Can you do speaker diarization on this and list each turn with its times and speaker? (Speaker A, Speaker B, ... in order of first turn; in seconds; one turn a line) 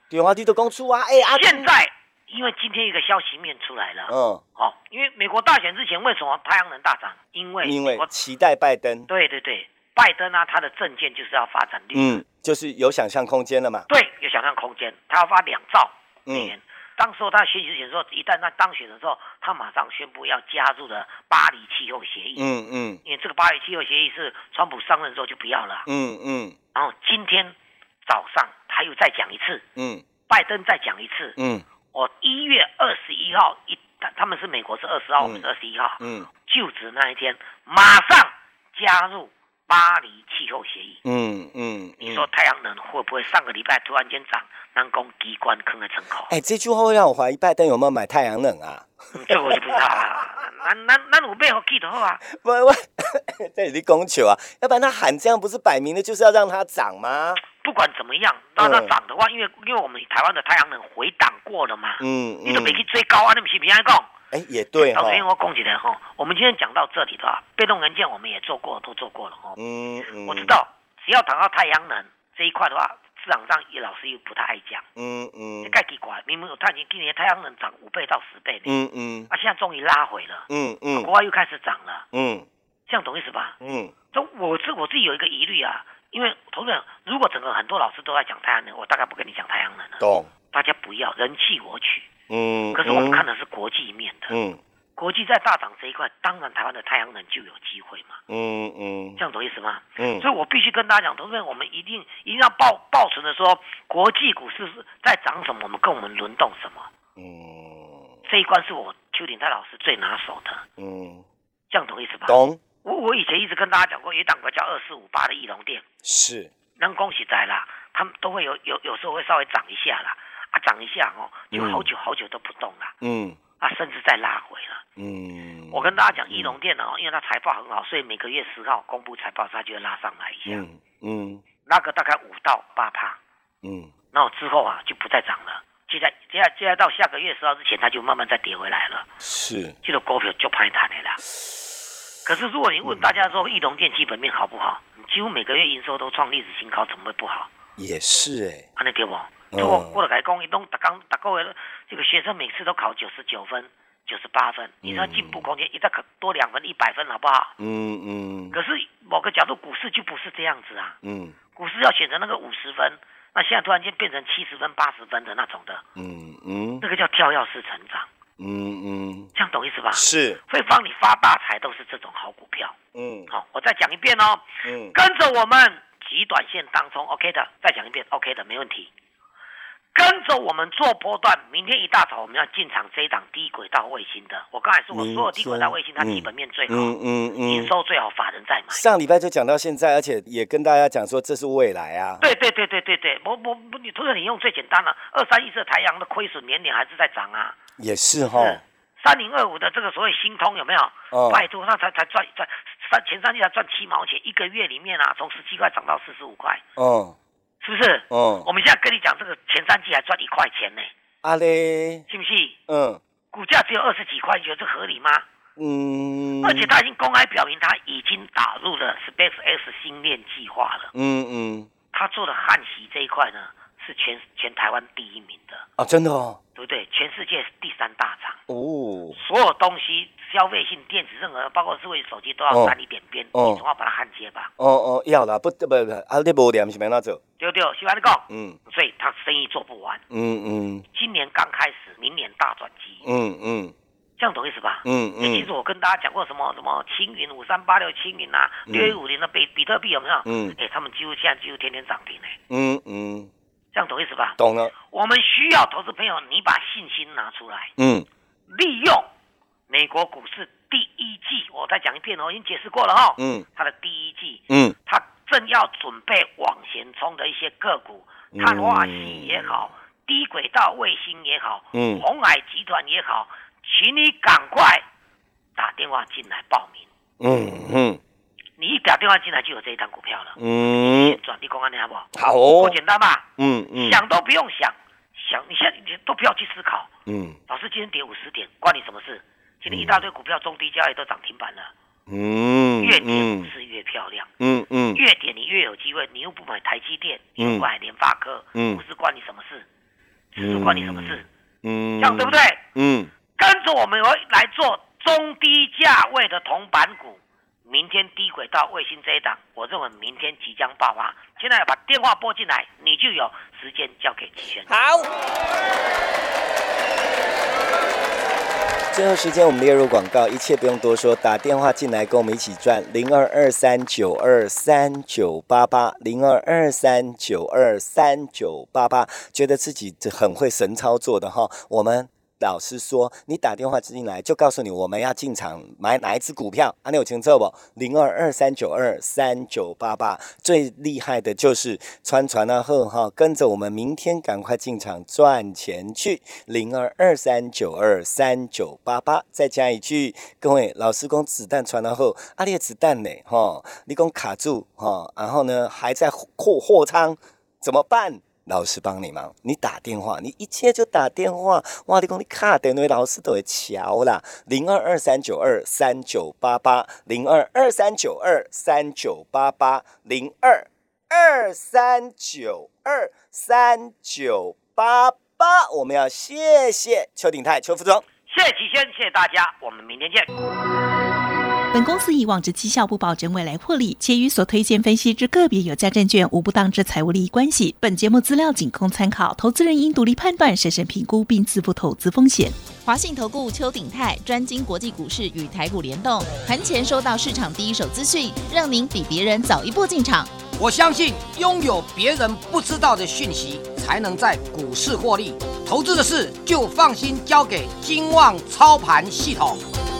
Speaker A: 0.1-1.7
Speaker B: 1.3-8.1
Speaker A: 4.1-4.4
Speaker A: 7.6-9.1
Speaker B: 9.1-12.2
Speaker A: 11.9-13.9
Speaker B: 13.9-22.5
Speaker A: 16.3-16.5
Speaker A: 22.4-23.0
Speaker B: 23.1-25.9
Speaker A: 25.9-26.6
Speaker B: 26.7-29.6
Speaker A: 29.8-30.1
Speaker B: 30.3-31.4
Speaker A: 31.4-31.6
Speaker B: 31.9-41.0
Speaker A: 35.2-35.5
Speaker A: 36.0-36.3
Speaker A: 41.0-42.3
Speaker B: 42.0-46.3
Speaker A: 46.3-50.2
Speaker B: 49.1-52.2
Speaker A: 52.2-57.4
Speaker B: 57.5-64.1
Speaker A: 58.6-58.9
Speaker A: 62.0-62.8
Speaker A: 64.3-65.3
Speaker B: 64.8-69.6
Speaker A: 69.6-70.6
Speaker B: 70.2-74.9
Speaker A: 75.0-75.8
Speaker B: 75.6-78.7
Speaker A: 78.7-79.3
Speaker B: 79.3-82.1
Speaker A: 80.5-81.1
Speaker A: 82.1-82.5
Speaker B: 82.9-83.6
Speaker A: 83.6-83.9
Speaker B: 84.1-92.1
Speaker A: 90.0-90.3
Speaker A: 92.3-93.2
Speaker B: 92.7-94.4
Speaker A: 94.3-94.6
Speaker B: 95.0-98.2
Speaker A: 98.3-99.2
Speaker B: 99.2-106.9
Speaker A: 100.0-100.3
Speaker A: 107.2-108.1
Speaker B: 108.3-110.7
Speaker A: 110.8-111.3
Speaker B: 111.7-115.8
Speaker A: 112.3-112.6
Speaker A: 116.0-116.5
Speaker B: 116.8-123.0
Speaker A: 121.5-121.9
Speaker A: 123.0-123.4
Speaker B: 123.6-124.8
Speaker A: 125.0-126.6
Speaker B: 125.7-130.7
Speaker A: 130.5-131.4
Speaker B: 131.7-133.2
Speaker A: 133.6-133.9
Speaker B: 134.1-139.1
Speaker A: 139.2-139.8
Speaker B: 139.8-141.2
Speaker B: 142.2-147.5
Speaker A: 142.8-143.1
Speaker A: 147.8-148.7
Speaker B: 148.8-157.5
Speaker A: 149.5-150.0
Speaker A: 154.8-155.5
Speaker A: 157.6-158.6
Speaker B: 158.5-161.0
Speaker A: 161.0-161.4
Speaker B: 161.6-165.8
Speaker A: 166.0-166.8
Speaker B: 166.8-168.1
Speaker A: 168.4-169.3
Speaker B: 169.3-172.8
Speaker A: 169.9-170.4
Speaker A: 172.9-173.3
Speaker B: 173.3-178.9
Speaker A: 174.6-175.0
Speaker B: 179.9-188.8
Speaker A: 184.9-187.7
Speaker A: 188.7-192.2
Speaker B: 192.2-197.6
Speaker A: 197.8-198.6
Speaker B: 198.3-206.6
Speaker A: 201.1-201.5
Speaker A: 206.8-207.2
Speaker B: 207.6-210.9
Speaker A: 208.1-208.5
Speaker A: 211.2-212.1
Speaker B: 212.1-212.6
Speaker A: 212.7-213.0
Speaker B: 213.3-215.2
Speaker A: 215.6-216.7
Speaker B: 216.4-220.9
Speaker A: 220.9-221.7
Speaker B: 221.9-225.7
Speaker A: 225.8-226.4
Speaker B: 226.6-228.4
Speaker A: 228.5-229.2
Speaker B: 229.2-234.5
Speaker A: 232.5-232.8
Speaker A: 233.3-233.6
Speaker A: 234.6-237.2
Speaker B: 237.4-240.0
Speaker A: 238.3-238.6
Speaker A: 240.1-240.9
Speaker B: 240.9-243.1
Speaker A: 243.0-243.8
Speaker B: 244.2-252.4
Speaker A: 244.8-245.5
Speaker A: 248.7-249.0
Speaker A: 250.3-250.6
Speaker A: 252.5-253.3
Speaker B: 253.7-257.7
Speaker A: 254.4-254.7
Speaker A: 257.8-258.1
Speaker B: 258.5-259.1
Speaker B: 259.7-274.9
Speaker A: 263.2-263.5
Speaker A: 264.5-264.8
Speaker A: 268.3-269.6
Speaker A: 271.7-272.1
Speaker B: 275.6-276.9
Speaker A: 277.2-278.0
Speaker B: 278.6-286.9
Speaker A: 280.4-281.2
Speaker A: 282.1-282.8
Speaker A: 283.4-284.0
Speaker A: 287.1-287.4
Speaker B: 287.5-291.7
Speaker A: 289.7-290.0
Speaker A: 292.1-293.5
Speaker B: 292.8-294.3
Speaker A: 294.4-295.0
Speaker B: 294.9-299.7
Speaker A: 297.4-297.7
Speaker A: 298.6-298.8
Speaker B: 300.3-301.3
Speaker A: 300.4-303.1
Speaker B: 302.0-302.6
Speaker B: 303.4-315.0
Speaker A: 318.9-378.1
Speaker B: 378.3-380.3
Speaker C: 381.7-392.6
Speaker D: 392.8-400.3
Speaker E: 400.6-409.6